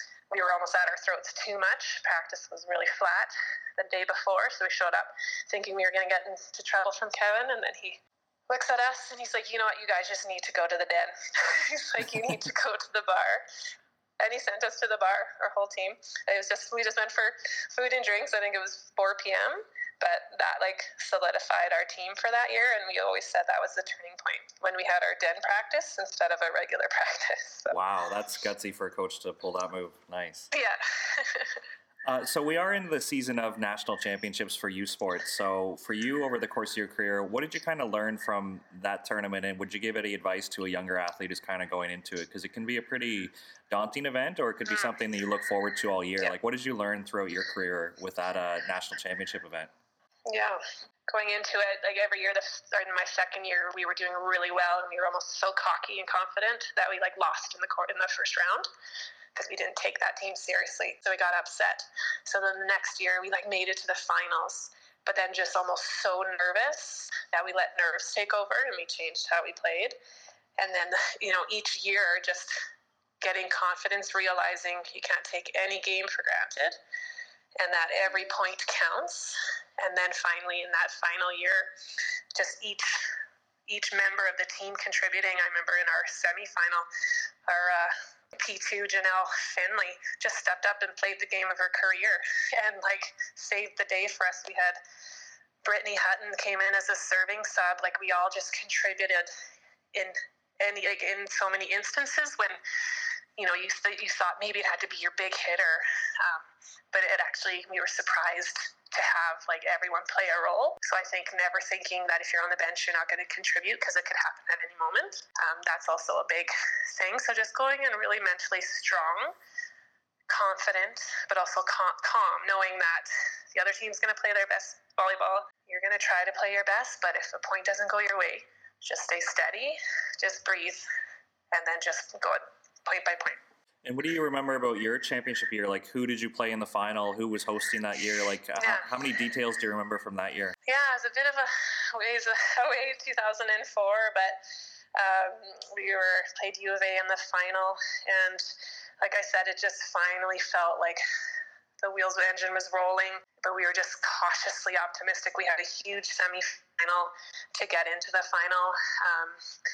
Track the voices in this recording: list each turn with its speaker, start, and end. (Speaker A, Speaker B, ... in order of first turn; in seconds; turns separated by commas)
Speaker A: 0.3-13.5, Speaker A: 14.2-27.8, Speaker B: 27.7-30.5, Speaker A: 30.5-31.6, Speaker B: 32.0-49.7, Speaker A: 50.3-58.7, Speaker A: 59.4-70.0, Speaker A: 70.6-72.5, Speaker A: 73.2-76.8, Speaker A: 77.6-81.7, Speaker A: 82.3-83.1, Speaker A: 83.7-86.9, Speaker A: 87.5-94.8, Speaker A: 95.6-99.3, Speaker A: 99.9-102.6, Speaker A: 103.4-119.3, Speaker A: 120.3-130.9, Speaker A: 131.5-133.4, Speaker B: 133.8-140.6, Speaker A: 138.6-138.9, Speaker A: 140.7-144.4, Speaker A: 145.0-148.5, Speaker A: 149.0-151.0, Speaker A: 151.8-159.4